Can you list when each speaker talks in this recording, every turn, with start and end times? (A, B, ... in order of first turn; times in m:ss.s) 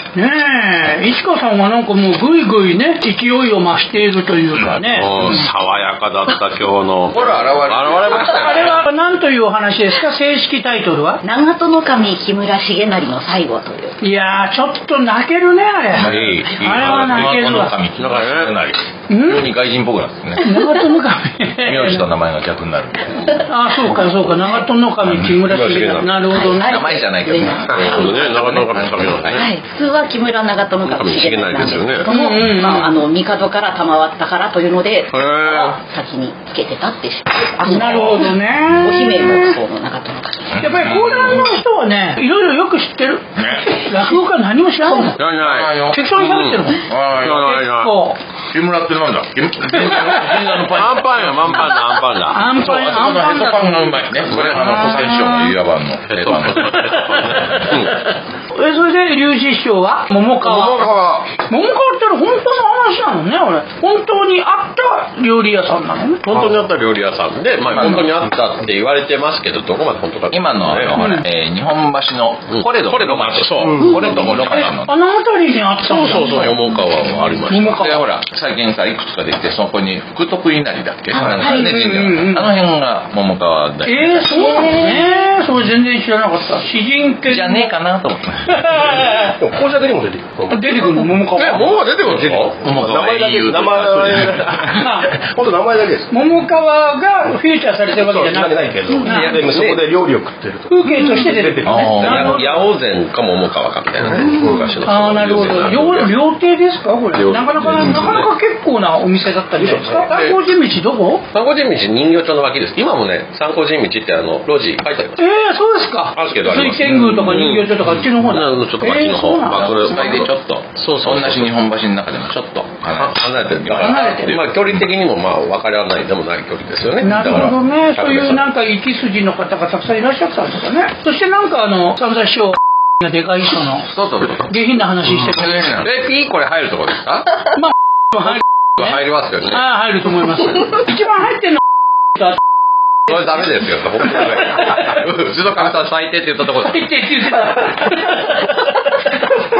0:00.1-0:05.5 A
0:04.7-0:08.8 B
0:07.1-0:08.8 C
0:08.1-0:11.2 A
0:11.2-0:14.0 D
0:14.0-0:17.7 A
0:15.9-0:20.5 C
0:16.0-0:17.4 B
0:18.0-0:18.6 B
0:19.1-0:19.4 A
0:20.4-0:22.0 A
0:21.6-0:23.4 C
0:23.4-0:26.7 A
0:25.0-0:25.5 C
0:25.5-0:26.2 B
0:26.2-0:28.0 D
0:26.6-0:29.4 C
0:27.7-0:29.4 B
0:29.3-0:40.5 D
0:30.8-0:32.1 B
0:32.1-0:33.0 A
0:35.1-0:35.8 B
0:37.6-0:39.5 A
0:37.7-0:38.2 C
0:40.5-0:41.6 C
0:40.6-0:45.2 A
0:43.4-0:43.9 C
0:45.2-0:47.9 B
0:45.3-0:46.2 C
0:45.9-0:48.2 A
0:46.8-0:47.6 C
0:48.5-0:51.7 C
0:49.8-0:53.4 B
0:52.3-0:55.5 A
0:52.6-0:57.6 C
0:54.2-0:54.8 B
0:56.1-0:58.0 B
0:58.5-1:00.8 A
1:00.6-1:01.2 B
1:01.4-1:06.2 A
1:06.2-1:11.0 B
1:07.7-1:08.1 C
1:10.3-1:15.0 C
1:10.9-1:11.2 A
1:12.5-1:14.7 B
1:14.1-1:16.6 A
1:15.9-1:18.0 B
1:17.5-1:18.0 A
1:17.7-1:24.4 C
1:21.4-1:22.5 A
1:21.4-1:21.7 D
1:23.8-1:27.8 A
1:24.3-1:25.1 D
1:27.3-1:28.8 C
1:28.5-1:29.4 A
1:29.0-1:31.0 E
1:30.5-1:31.8 A
1:31.4-1:33.4 B
1:32.0-1:36.2 E
1:32.2-1:34.7 C
1:34.7-1:35.1 A
1:36.1-1:39.4 A
1:37.9-1:42.0 E
1:39.0-1:39.8 B
1:40.7-1:42.6 A
1:41.6-1:42.4 C
1:41.6-1:46.1 B
1:44.0-1:44.8 E
1:44.8-1:51.2 A
1:47.1-1:48.3 B
1:49.6-1:50.1 E
1:49.9-1:50.4 B
1:51.3-1:55.2 B
1:55.2-2:00.3 A
1:56.1-2:01.5 B
1:59.6-2:04.8 C
2:02.3-2:08.5 B
2:03.8-2:04.4 A
2:07.0-2:13.9 A
2:07.1-2:07.5 C
2:13.9-2:14.5 C
2:14.5-2:15.6 A
2:15.2-2:16.0 C
2:15.8-2:17.2 B
2:17.5-2:18.9 A
2:18.8-2:19.7 B
2:19.5-2:21.6 A
2:23.1-2:26.8 B
2:26.6-2:28.4 A